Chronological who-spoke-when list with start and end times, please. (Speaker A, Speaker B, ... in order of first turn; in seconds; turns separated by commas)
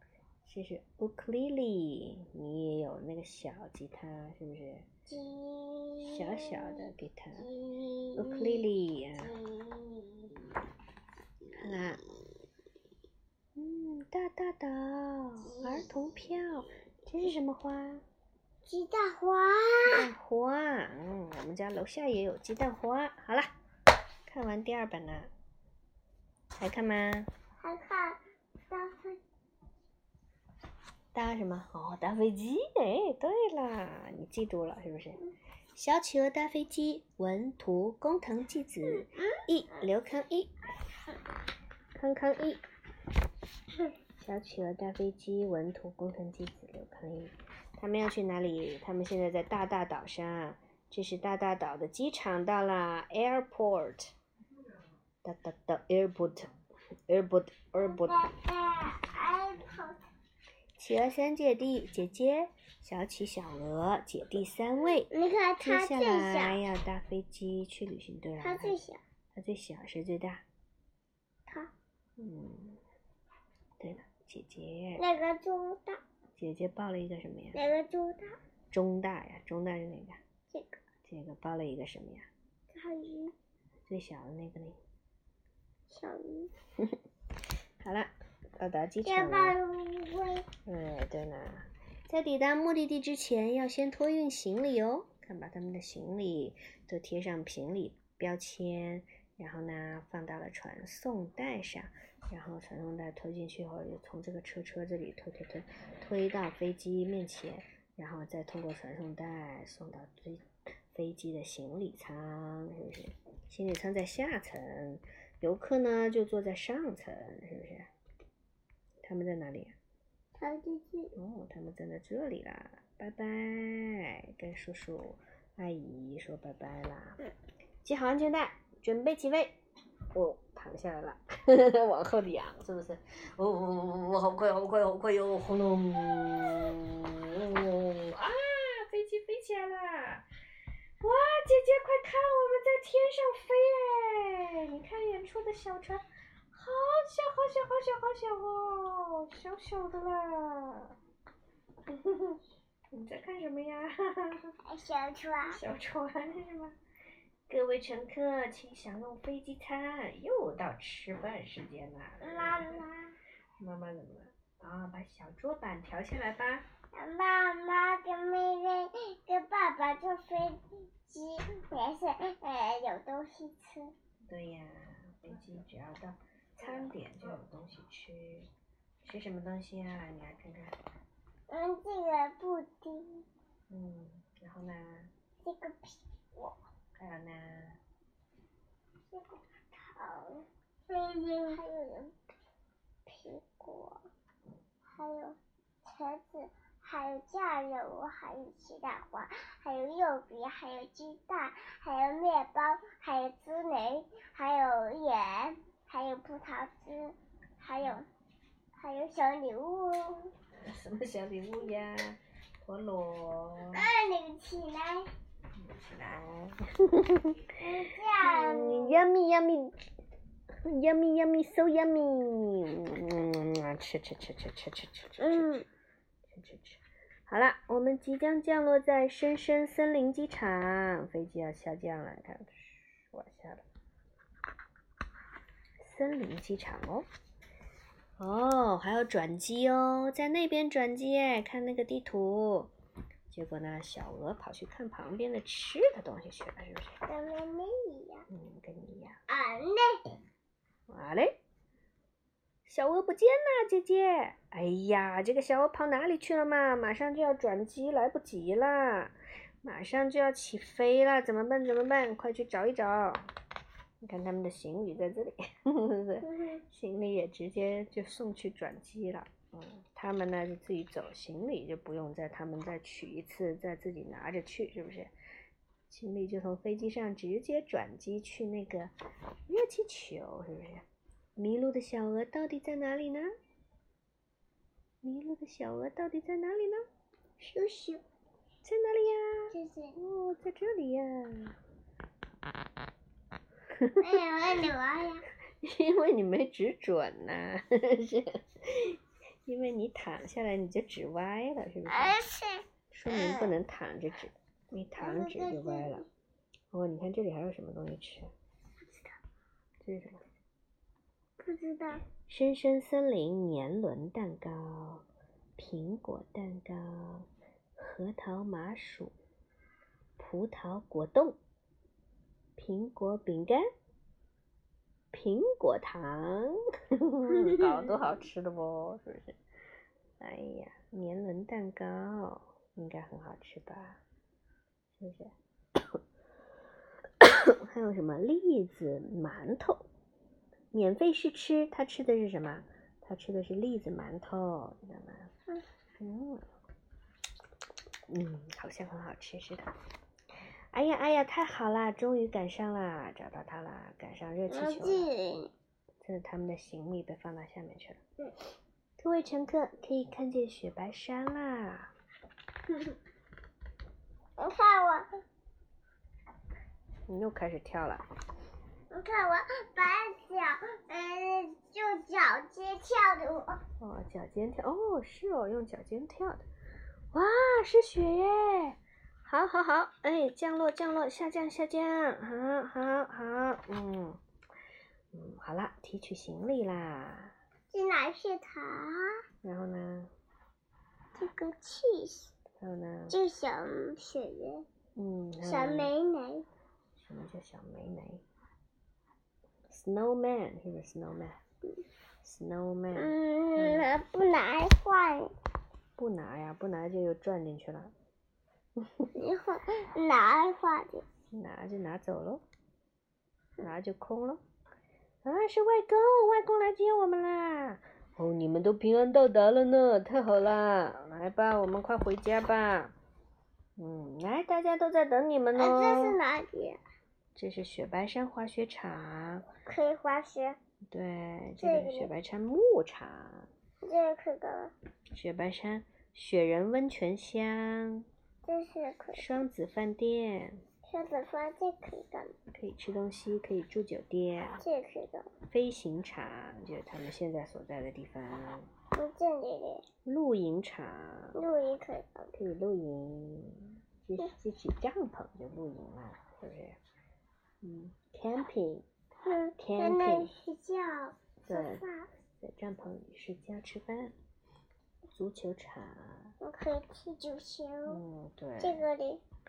Speaker A: 0.4-4.9, Speaker B: 5.1-10.6, Speaker A: 6.0-7.5, Speaker A: 8.2-9.3, Speaker A: 11.5-12.0, Speaker A: 13.6-18.0, Speaker B: 15.4-15.9, Speaker B: 18.6-20.1, Speaker A: 19.9-23.5, Speaker A: 24.3-25.3, Speaker A: 26.6-27.3, Speaker B: 27.6-29.2, Speaker A: 31.1-35.2, Speaker A: 35.7-40.5, Speaker B: 38.9-39.4, Speaker A: 41.9-42.6, Speaker A: 44.2-54.1, Speaker A: 55.2-56.5, Speaker A: 57.1-58.2, Speaker B: 57.8-60.0, Speaker A: 60.8-68.8, Speaker B: 65.1-66.6, Speaker B: 68.4-69.0, Speaker A: 69.3-70.4, Speaker B: 71.5-71.7, Speaker A: 72.2-72.8, Speaker A: 73.8-75.0, Speaker B: 75.0-76.0, Speaker A: 76.4-77.6, Speaker B: 77.5-78.3, Speaker A: 78.7-80.2, Speaker B: 80.5-80.8, Speaker A: 81.0-82.3, Speaker B: 82.7-83.3, Speaker A: 83.9-84.8, Speaker B: 85.9-86.5, Speaker A: 87.8-89.6, Speaker B: 89.0-90.5, Speaker A: 90.7-117.9, Speaker A: 119.0-119.7, Speaker B: 120.3-121.1, Speaker A: 121.1-127.2, Speaker A: 127.8-129.6, Speaker A: 130.1-140.2, Speaker A: 141.0-150.9, Speaker A: 151.9-152.4, Speaker A: 152.9-154.5, Speaker B: 154.6-155.6, Speaker A: 155.5-156.8, Speaker A: 157.5-162.8, Speaker B: 162.2-163.2, Speaker A: 163.6-166.7, Speaker B: 166.9-173.9, Speaker A: 174.3-178.5, Speaker A: 179.0-180.8, Speaker B: 181.5-183.3, Speaker A: 183.7-185.1, Speaker B: 185.4-186.6, Speaker A: 186.9-187.8, Speaker B: 189.0-192.2, Speaker B: 193.1-194.1, Speaker B: 194.9-208.1, Speaker B: 208.8-210.3, Speaker A: 210.6-213.8, Speaker B: 213.7-215.1, Speaker A: 215.6-217.6, Speaker B: 217.6-219.0, Speaker A: 218.2-219.8, Speaker A: 220.6-225.6, Speaker B: 225.2-225.6, Speaker A: 226.3-233.6, Speaker A: 235.8-237.1, Speaker A: 238.2-242.7, Speaker A: 243.3-247.0, Speaker B: 247.1-248.3, Speaker A: 248.3-249.2, Speaker B: 249.3-250.2, Speaker A: 250.9-251.4, Speaker A: 252.7-263.3, Speaker A: 264.0-275.1, Speaker B: 266.2-266.6, Speaker A: 275.9-278.9, Speaker A: 279.5-280.8, Speaker A: 281.4-283.3, Speaker A: 285.0-286.8, Speaker B: 287.4-288.0, Speaker A: 288.6-291.6, Speaker B: 289.5-290.0, Speaker A: 293.7-294.1, Speaker B: 294.0-295.2, Speaker A: 295.6-302.2, Speaker B: 301.9-303.5, Speaker A: 302.9-306.0, Speaker B: 305.0-306.1, Speaker A: 306.7-308.3, Speaker B: 308.8-309.2, Speaker A: 309.8-310.2, Speaker B: 311.4-312.0, Speaker A: 312.3-315.0, Speaker A: 315.6-319.1, Speaker A: 320.2-321.4, Speaker A: 322.6-323.7, Speaker A: 325.1-329.4, Speaker B: 327.3-327.9, Speaker A: 330.2-334.0, Speaker A: 334.9-335.3, Speaker A: 337.2-339.8, Speaker A: 340.7-345.3, Speaker A: 346.0-346.4, Speaker A: 348.1-349.7, Speaker A: 350.7-355.1, Speaker B: 354.5-355.5, Speaker A: 356.0-358.0, Speaker A: 359.0-361.9, Speaker B: 362.7-363.0, Speaker B: 364.4-365.1, Speaker A: 367.1-368.1, Speaker B: 368.9-373.6, Speaker A: 373.8-376.5, Speaker A: 377.1-384.2, Speaker A: 385.1-387.3, Speaker B: 387.7-389.2, Speaker A: 389.4-390.1, Speaker B: 391.1-392.3, Speaker A: 392.6-393.2, Speaker B: 393.1-394.6, Speaker A: 394.9-395.9, Speaker B: 395.4-396.4, Speaker A: 397.0-398.2, Speaker A: 399.7-401.4, Speaker A: 402.2-403.9, Speaker B: 402.9-405.3, Speaker A: 406.0-407.9, Speaker A: 408.8-409.1, Speaker B: 409.1-411.1, Speaker A: 411.3-412.4, Speaker A: 413.6-414.4, Speaker A: 415.2-422.9, Speaker A: 423.8-426.2, Speaker B: 425.5-426.8, Speaker A: 427.4-429.5, Speaker B: 429.6-430.6, Speaker A: 430.9-433.5, Speaker B: 431.6-432.1, Speaker B: 433.8-434.7, Speaker A: 435.1-438.1, Speaker B: 438.4-439.2, Speaker A: 439.1-440.6, Speaker B: 440.9-442.4, Speaker A: 442.5-444.6, Speaker B: 444.6-445.3, Speaker A: 445.5-448.7, Speaker B: 448.9-449.9, Speaker A: 450.0-451.4, Speaker B: 451.3-452.3, Speaker A: 452.3-456.8, Speaker A: 457.6-458.8, Speaker B: 459.2-462.1, Speaker A: 459.6-460.3, Speaker A: 461.4-461.8, Speaker A: 462.4-464.1, Speaker A: 465.1-466.3, Speaker B: 466.4-468.0, Speaker A: 467.9-468.8, Speaker B: 468.6-469.2